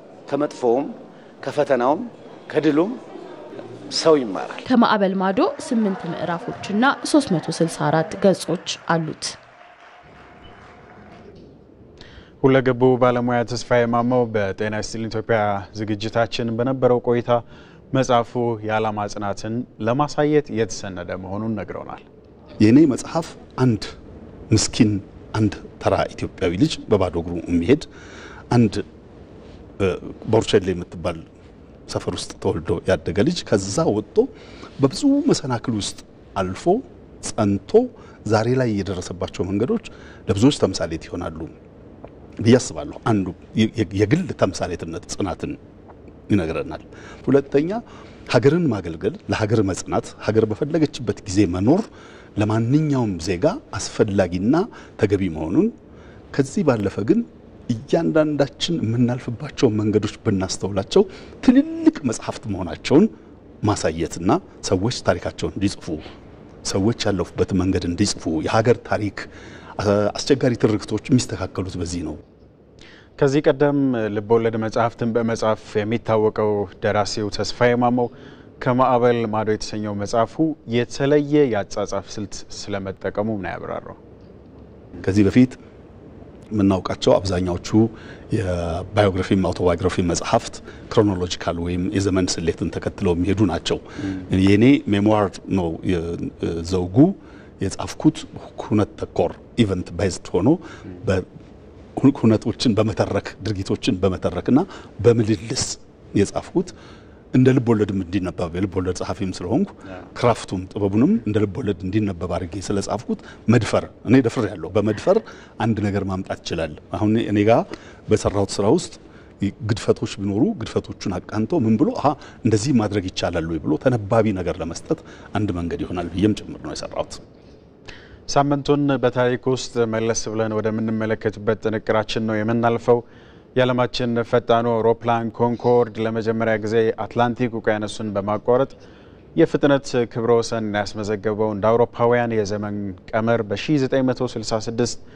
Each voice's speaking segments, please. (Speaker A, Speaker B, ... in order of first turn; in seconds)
Speaker A: 0.3-3.0, 3.9-4.6
Speaker B: 4.7-9.3
Speaker C: 12.4-22.0, 73.2-84.0, 128.3-133.0, 133.5-138.7, 139.4-145.0
Speaker D: 22.6-23.9, 24.5-27.9, 28.5-28.8, 29.8-31.2, 31.9-41.5, 42.4-45.6, 46.3-55.7, 56.3-63.1, 63.6-66.1, 66.7-69.3, 69.8-72.2, 85.0-85.6, 86.5-101.2, 102.0-106.7, 107.3-127.2